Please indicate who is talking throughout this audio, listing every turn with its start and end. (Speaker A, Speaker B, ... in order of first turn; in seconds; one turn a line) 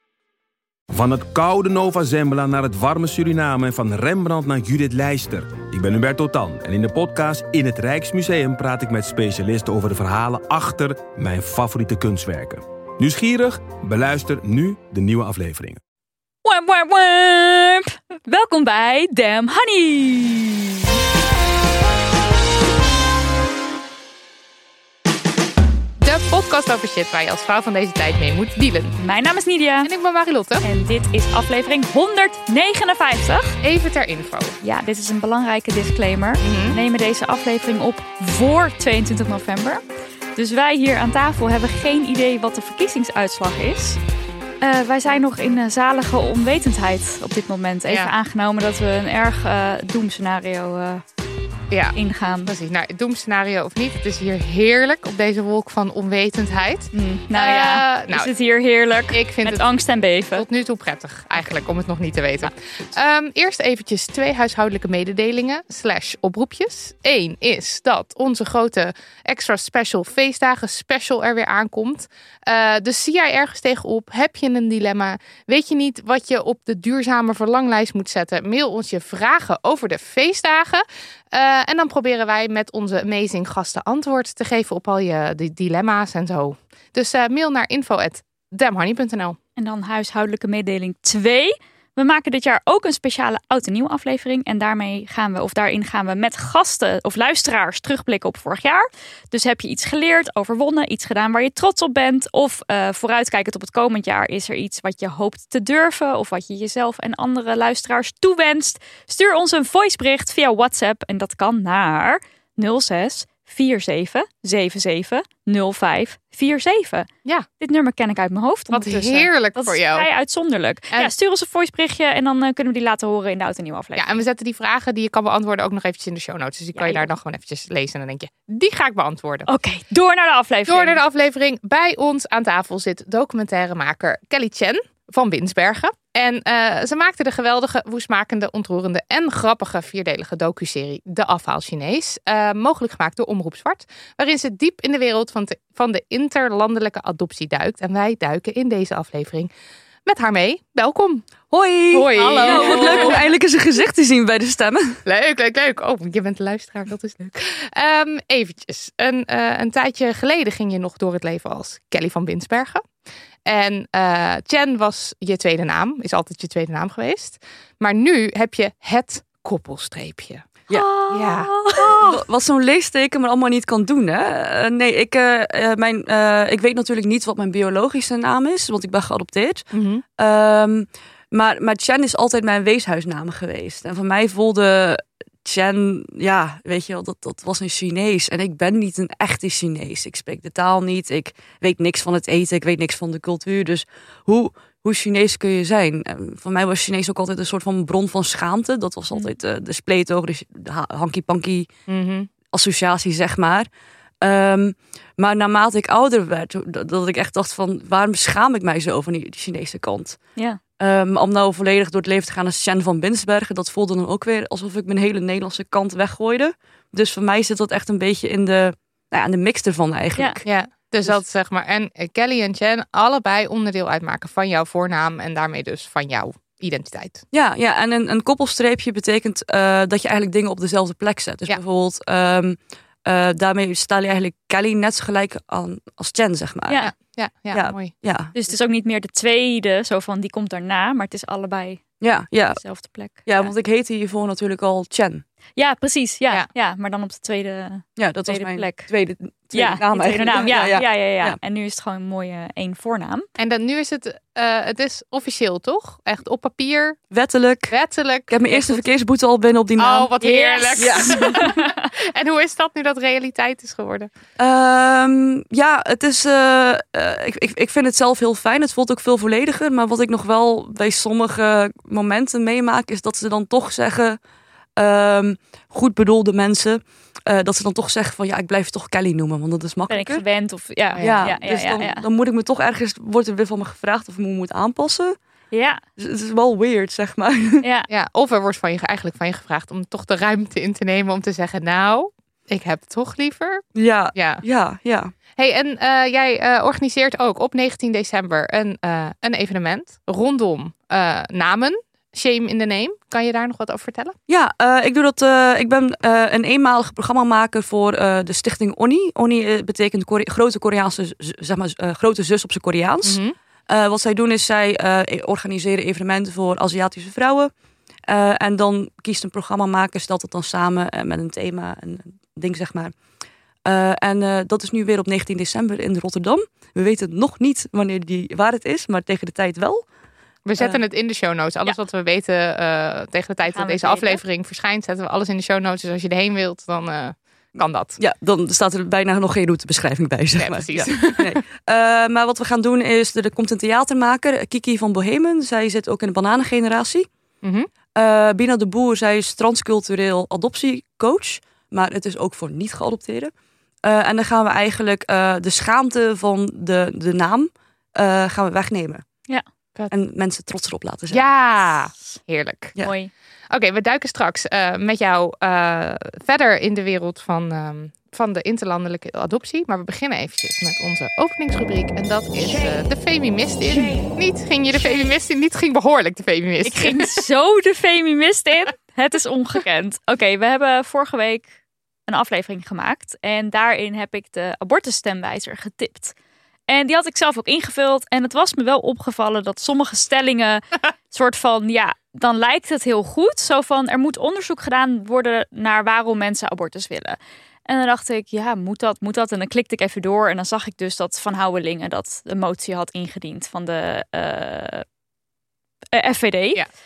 Speaker A: 0.9-15.8
Speaker B: 16.4-20.9
Speaker C: 26.0-29.0
Speaker B: 29.0-29.9
Speaker C: 29.8-30.6
Speaker B: 30.6-33.6
Speaker C: 33.6-34.6
Speaker B: 34.6-39.8
Speaker C: 36.4-36.8
Speaker B: 40.4-44.0
Speaker B: 44.6-51.0
Speaker C: 47.9-48.1
Speaker C: 51.7-58.3
Speaker B: 51.9-52.5
Speaker B: 56.9-60.5
Speaker C: 59.1-59.6
Speaker C: 60.3-89.4
Speaker B: 89.6-117.1
Speaker B: 117.6-124.1
Speaker C: 118.7-120.1
Speaker C: 124.0-129.5
Speaker B: 126.8-127.1
Speaker B: 129.5-131.0
Speaker C: 130.7-149.5
Speaker C: 150.1-151.3
Speaker D: 151.5-155.0
Speaker C: 151.9-153.2
Speaker B: 152.2-153.3
Speaker C: 155.1-162.8
Speaker C: 163.4-170.5
Speaker B: 170.7-172.2
Speaker C: 171.1-171.5
Speaker D: 171.9-179.7
Speaker C: 179.7-180.0
Speaker D: 180.2-201.7
Speaker C: 201.9-202.3
Speaker D: 202.5-203.7
Speaker D: 204.2-210.2
Speaker D: 210.8-220.5
Speaker C: 220.5-227.2
Speaker D: 227.3-236.8
Speaker C: 236.8-237.9
Speaker D: 237.5-238.3
Speaker B: 238.3-241.8
Speaker D: 242.0-245.2
Speaker B: 242.5-243.5
Speaker B: 245.6-248.9
Speaker D: 248.0-251.4
Speaker B: 249.5-253.3
Speaker C: 253.4-257.0
Speaker D: 257.1-257.8
Speaker C: 257.7-258.7
Speaker D: 258.3-260.1
Speaker C: 259.8-264.1
Speaker B: 260.2-261.9
Speaker D: 260.8-261.5
Speaker D: 264.4-274.2
Speaker D: 274.8-280.2
Speaker B: 279.9-282.1
Speaker C: 281.0-281.4
Speaker D: 281.0-285.2
Speaker B: 285.5-285.8
Speaker D: 286.0-287.6
Speaker B: 287.6-287.9
Speaker C: 287.9-294.4
Speaker D: 293.8-295.1
Speaker C: 295.4-304.1
Speaker D: 304.3-317.5
Speaker C: 313.0-313.4
Speaker D: 318.1-322.9
Speaker D: 323.7-329.9
Speaker C: 330.5-338.0
Speaker B: 333.5-334.2
Speaker D: 338.0-347.1
Speaker C: 340.4-341.4
Speaker C: 347.4-347.7
Speaker D: 348.0-353.3
Speaker D: 353.8-359.1
Speaker D: 359.9-361.3
Speaker C: 361.1-362.8
Speaker B: 362.8-363.1
Speaker C: 363.5-377.2
Speaker B: 376.6-381.5
Speaker B: 382.1-386.1
Speaker B: 386.7-404.9
Speaker B: 405.9-406.6